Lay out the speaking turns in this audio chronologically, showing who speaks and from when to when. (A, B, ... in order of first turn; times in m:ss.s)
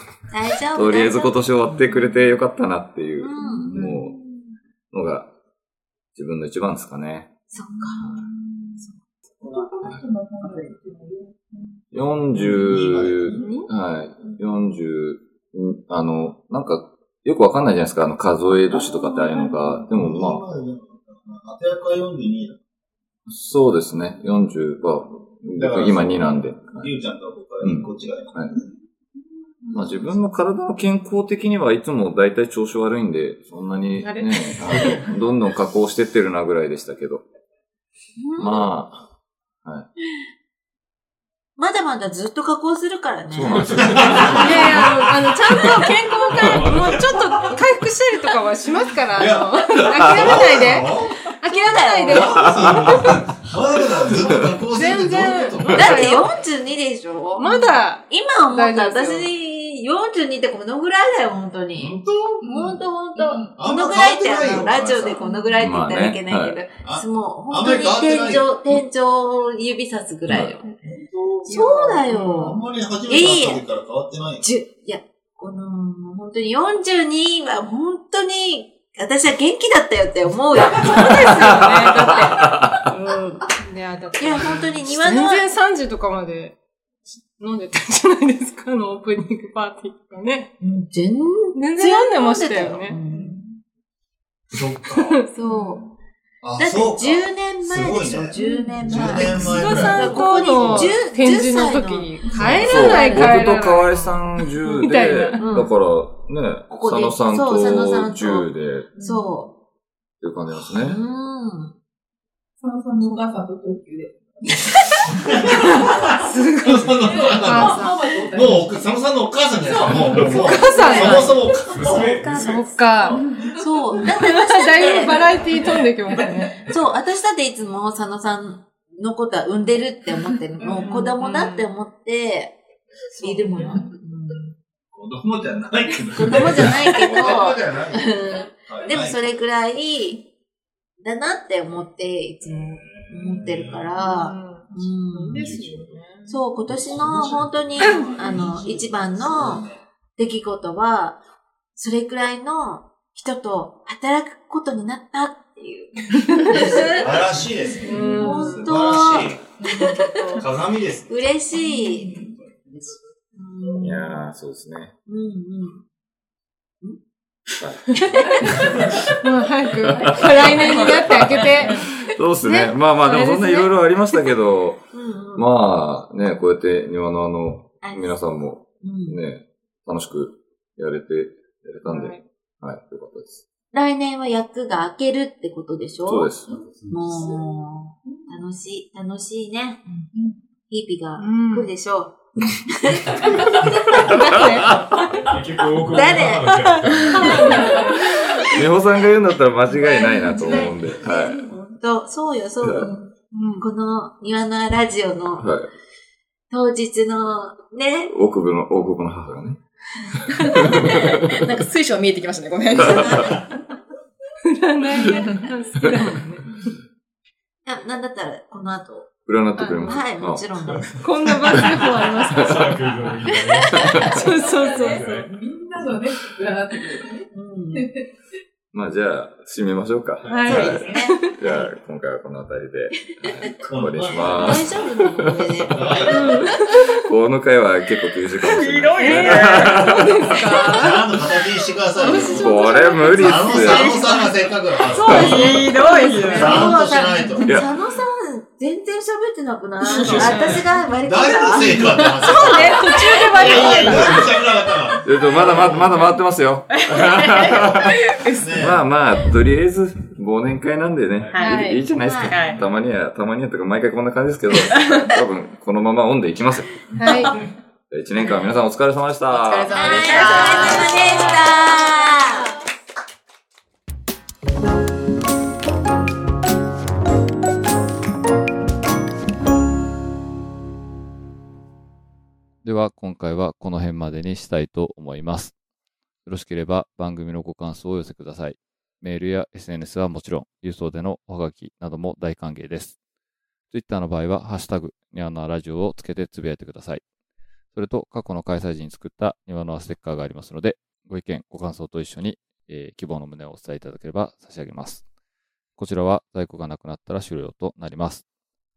0:00.3-0:01.4 A
0:00.7-0:04.1 B
0:03.2-0:03.8 A
0:03.4-0:04.5 C
0:03.7-0:04.1 D
0:04.9-0:05.3 B
0:06.2-0:07.3 B
0:07.5-0:08.2 A
0:07.8-0:11.8 C
0:09.4-0:09.7 D
0:10.4-0:10.7 D
0:11.9-0:20.4 B
0:12.3-0:13.6 E
0:13.3-0:13.7 F
0:18.7-0:19.8 C
0:19.9-0:22.6 E
0:23.3-0:26.9 B
0:25.6-0:28.7 E
0:27.6-0:28.5 B
0:29.7-0:37.2 B
0:34.0-0:35.0 F
0:38.2-0:38.7 A
0:38.4-0:39.0 B
0:41.6-0:44.2 A
0:43.3-0:44.9 B
0:43.5-0:45.2 G
0:43.8-0:44.8 E
0:44.4-0:52.8 F
0:46.4-0:47.6 G
0:49.1-0:51.3 E
0:50.0-0:50.4 B
0:51.4-0:52.5 A
0:52.1-0:56.2 E
0:52.8-0:53.5 G
0:54.7-0:56.3 F
0:55.7-1:10.7 A
0:57.4-0:59.3 F
1:01.8-1:02.5 E
1:02.4-1:03.6 C
1:03.6-1:05.2 E
1:05.2-1:05.6 C
1:05.6-1:06.6 B
1:06.8-1:08.5 E
1:10.3-1:10.6 B
1:10.8-1:11.5 E
1:11.4-1:12.6 F
1:11.5-1:13.6 A
1:12.3-1:14.5 E
1:14.4-1:22.2 A
1:20.7-1:22.6 F
1:22.9-1:23.4 A
1:23.6-1:26.6 F
1:24.2-1:25.4 A
1:27.4-1:30.5 F
1:30.6-1:33.4 A
1:31.5-1:33.0 F
1:33.1-1:33.6 C
1:34.5-1:35.2 E
1:34.9-1:35.8 F
1:35.3-1:35.8 A
1:36.4-1:41.0 E
1:36.6-1:43.5 A
1:38.4-1:39.6 C
1:38.5-1:45.4 F
1:42.3-1:42.7 E
1:42.6-1:48.9 B
1:45.4-1:45.7 A
1:46.7-1:49.5 A
1:49.0-1:49.4 C
1:50.2-1:51.0 B
1:50.8-1:51.7 A
1:52.6-1:54.2 C
1:55.1-2:02.0 C
1:55.2-1:56.0 E
1:55.5-1:58.0 F
1:56.6-2:03.0 E
1:59.9-2:00.4 G
2:00.3-2:03.2 F
2:01.7-2:02.6 G
2:01.8-2:02.6 A
2:03.1-2:04.0 C
2:03.6-2:05.6 A
2:04.0-2:06.6 F
2:06.1-2:06.6 C
2:06.7-2:12.6 A
2:10.6-2:11.6 C
2:13.2-2:14.5 A
2:13.2-2:13.6 F
2:13.5-2:13.9 C
2:14.9-2:19.2 E
2:16.0-2:17.0 G
2:16.1-2:20.3 A
2:21.0-2:25.4 A
2:23.0-2:23.8 E
2:23.9-2:26.4 F
2:25.3-2:28.5 G
2:26.3-2:29.6 A
2:26.8-2:27.3 E
2:27.8-2:29.8 E
2:30.2-2:31.2 A
2:31.8-2:37.3 A
2:36.3-2:36.9 F
2:36.5-2:39.5 E
2:37.8-2:38.7 F
2:38.0-2:40.5 A
2:40.4-2:41.2 E
2:41.1-2:42.2 A
2:41.7-2:42.3 C
2:42.1-2:43.1 D
2:43.3-2:44.2 A
2:43.8-2:44.9 B
2:45.1-2:45.8 A
2:48.0-2:48.6 F
2:48.0-2:48.8 B
2:49.2-2:53.7 F
2:50.0-2:54.8 B
2:50.4-2:51.9 D
2:54.9-2:55.5 A
2:55.3-3:03.4 B
2:57.8-2:58.2 A
2:58.8-2:59.2 A
3:01.8-3:02.2 F
3:03.7-3:06.3 A
3:06.1-3:06.5 B
3:06.5-3:08.4 C
3:06.7-3:07.0 G
3:06.9-3:09.8 A
3:10.1-3:10.4 C
3:10.7-3:14.4 A
3:11.2-3:11.7 F
3:13.2-3:13.6 C
3:14.1-3:14.7 F
3:14.1-3:14.9 B
3:15.2-3:17.5 G
3:15.9-3:17.8 A
3:17.0-3:18.0 C
3:17.1-3:17.6 F
3:18.5-3:21.5 B
3:19.7-3:20.5 C
3:20.4-3:23.0 A
3:21.1-3:21.5 C
3:22.6-3:22.9 B
3:23.3-3:23.7 F
3:23.6-3:25.5 A
3:25.4-3:25.7 B
3:26.5-3:28.1 A
3:28.1-3:29.6 B
3:30.2-3:31.4 B
3:30.4-3:33.4 D
3:32.8-3:33.4 A
3:34.4-3:36.7 F
3:37.6-3:39.1 A
3:39.3-3:40.5 B
3:39.6-3:40.0 F
3:39.8-3:41.0 A
3:40.6-3:45.3 G
3:41.0-3:42.7 F
3:43.6-3:45.3 F
3:43.8-3:48.1 C
3:47.3-3:47.9 A
3:48.7-3:56.1 B
3:50.2-3:51.3 F
3:50.4-3:51.2 A
3:50.6-3:51.2 C
3:53.6-3:55.0 E
3:54.4-3:56.5 A
3:55.7-3:56.5 E
3:56.0-3:56.9 F
3:57.1-4:00.7 B
3:58.4-4:00.1 D
3:59.0-4:01.2 F
4:00.7-4:02.6 E
4:02.0-4:04.2 F
4:02.0-4:02.4 A
4:02.3-4:04.0 B
4:03.2-4:05.6 E
4:03.3-4:04.4 A
4:04.8-4:06.7 F
4:05.1-4:05.6 B
4:05.1-4:06.8 D
4:06.2-4:07.5 E
4:06.3-4:14.0 A
4:09.8-4:10.6 D
4:09.9-4:12.8 E
4:10.0-4:10.6 F
4:12.2-4:14.2 F
4:12.4-4:14.3 D
4:13.4-4:16.1 E
4:15.0-4:18.0 B
4:15.3-4:15.8 D
4:16.7-4:18.8 D
4:18.4-4:18.8 E
4:18.6-4:26.8 B
4:21.3-4:22.6 D
4:21.4-4:21.8 F
4:22.0-4:22.4 A
4:24.7-4:25.0 D
4:27.0-4:27.3 F
4:27.9-4:30.6 B
4:29.3-4:31.6 D
4:29.7-4:32.5 A
4:42.6-4:45.5 B
4:46.3-4:53.0 B
4:53.7-4:57.0 B
4:57.7-5:05.0 B
5:05.8-5:08.2 B